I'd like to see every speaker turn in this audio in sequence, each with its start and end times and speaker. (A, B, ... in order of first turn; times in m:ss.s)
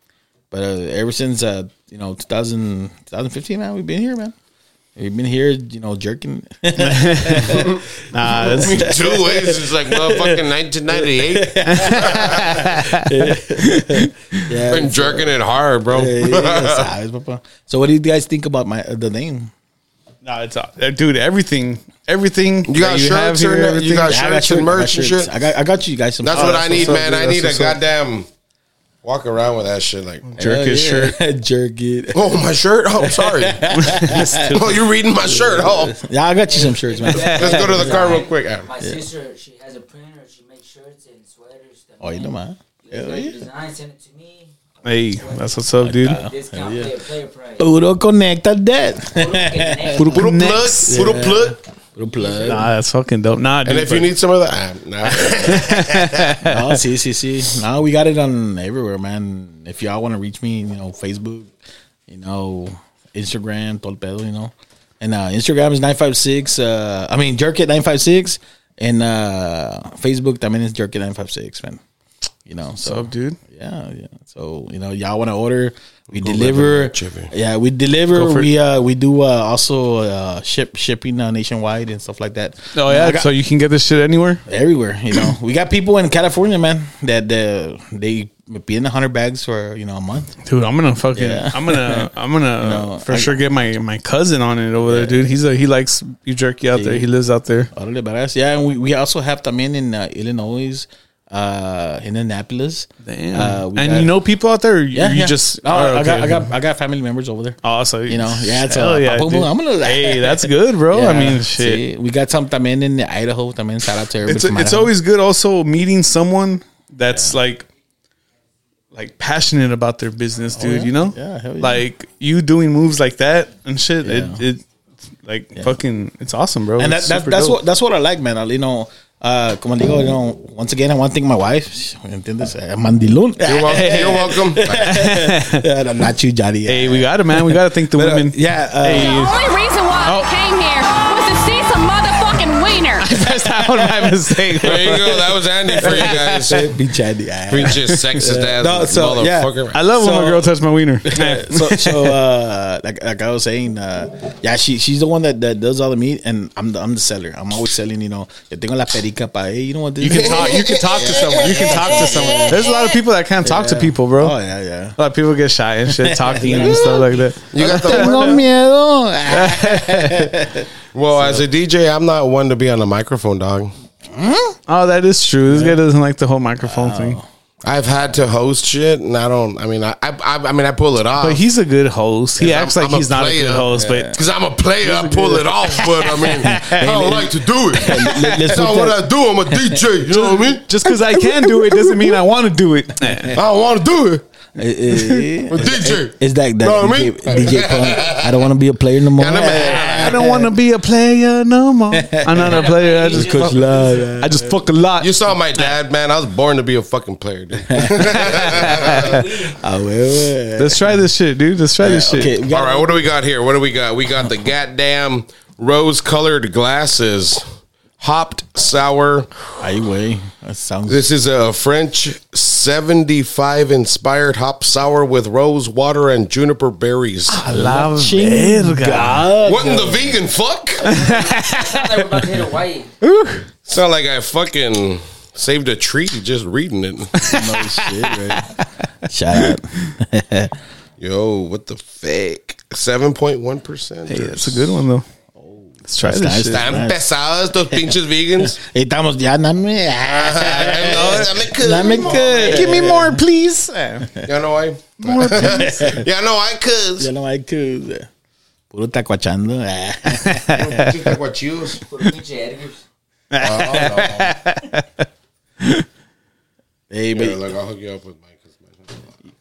0:00.5-0:04.4 A
0:05.0-0:10.4 A
0:06.8-0:09.0 B
0:07.5-0:07.8 C
0:08.3-0:12.6 C
0:10.9-0:15.3 A
0:11.7-0:14.4 B
0:14.7-0:16.9 C
0:15.9-0:19.5 A
0:20.2-0:24.2 B
0:22.7-0:25.3 C
0:24.0-0:27.0 A
0:26.2-0:28.3 C
0:26.3-0:27.8 B
0:29.0-0:30.3 C
0:30.3-0:31.2 B
0:30.4-0:34.6 A
0:32.1-0:33.7 C
0:33.7-0:34.8 B
0:34.5-0:36.0 C
0:35.2-0:38.2 A
0:36.5-0:47.7 D
0:37.1-0:38.7 C
0:38.8-0:39.0 A
0:42.0-0:43.4 A
0:44.8-0:46.2 B
0:45.8-0:46.9 A
0:47.6-0:50.2 A
0:49.1-0:50.2 D
0:50.0-0:51.2 B
0:50.0-0:51.6 C
0:50.9-0:52.7 A
0:52.4-0:54.1 B
0:53.6-0:56.3 C
0:55.2-0:56.7 B
0:56.4-1:01.5 A
1:02.1-1:11.8 A
1:12.5-1:23.3 A
1:12.8-1:13.4 B
1:16.1-1:17.3 C
1:18.1-1:18.5 B
1:22.8-1:24.4 B
1:24.5-1:30.4 A
1:30.4-1:37.7 B
1:31.2-1:33.4 A
1:34.8-1:35.2 A
1:36.7-1:37.1 A
1:37.7-1:44.1 A
1:43.0-1:46.5 B
1:44.9-1:54.9 A
1:47.6-1:51.8 B
1:54.3-1:57.7 B
1:57.1-1:57.4 A
1:58.9-2:04.6 B
2:00.6-2:01.8 A
2:04.0-2:04.4 A
2:05.2-2:07.6 B
2:06.8-2:19.2 A
2:13.4-2:14.9 C
2:14.8-2:15.6 B
2:16.7-2:19.4 B
2:18.9-2:23.1 E
2:20.0-2:20.3 B
2:23.1-2:26.5 B
2:23.1-2:25.2 A
2:24.6-2:26.7 C
2:25.8-2:42.6 A
2:27.5-2:29.8 C
2:29.7-2:32.2 B
2:40.0-2:44.4 B
2:40.2-2:42.6 C
2:42.7-2:42.9 E
2:43.4-2:45.0 A
2:45.0-2:48.4 B
2:45.9-2:51.4 A
2:46.5-2:48.4 C
2:49.3-2:50.3 B
2:50.9-2:53.7 C
2:54.1-2:54.6 A
2:54.7-2:57.2 B
2:55.5-2:55.8 A
2:56.6-2:57.3 A
2:57.6-3:01.4 C
3:01.2-3:04.1 B
3:02.4-3:10.7 C
3:03.8-3:04.2 A
3:04.8-3:08.6 B
3:07.8-3:09.0 A
3:10.1-3:13.4 B
3:11.1-3:12.2 A
3:13.3-3:14.2 C
3:14.6-3:20.5 A
3:14.9-3:15.3 B
3:15.5-3:18.5 C
3:19.2-3:20.2 C
3:19.6-3:25.7 B
3:21.9-3:24.6 A
3:22.4-3:24.1 D
3:25.0-3:29.2 C
3:27.7-3:28.2 A
3:28.0-3:29.3 B
3:28.3-3:29.6 D
3:29.5-3:31.0 A
3:30.6-3:32.4 B
3:31.8-3:33.0 A
3:32.5-3:37.4 C
3:38.0-3:39.3 C
3:39.6-3:41.0 A
3:40.9-3:47.4 C
3:47.3-3:49.3 B
3:47.4-3:50.2 A
3:49.4-3:51.0 C
3:50.8-3:52.4 B
3:50.9-3:53.0 D
3:53.0-3:53.4 B
3:53.7-3:57.3 C
3:57.2-3:58.5 B
3:57.2-4:00.6 A
4:01.0-4:04.8 C
4:04.1-4:05.0 B
4:05.4-4:07.0 A
4:05.9-4:06.8 B
4:06.5-4:08.6 C
4:08.5-4:13.2 A
4:10.0-4:12.4 C
4:10.8-4:11.3 B
4:12.0-4:13.1 D
4:12.5-4:14.1 B
4:14.3-4:17.1 C
4:15.0-4:15.9 B
4:15.2-4:16.0 A
4:17.0-4:18.1 A
4:18.7-4:21.0 A
4:20.1-4:20.9 B
4:20.5-4:21.8 C
4:21.9-4:22.8 D
4:23.3-4:25.1 B
4:23.4-4:24.4 C
4:26.9-4:27.4 A
4:27.1-4:29.1 C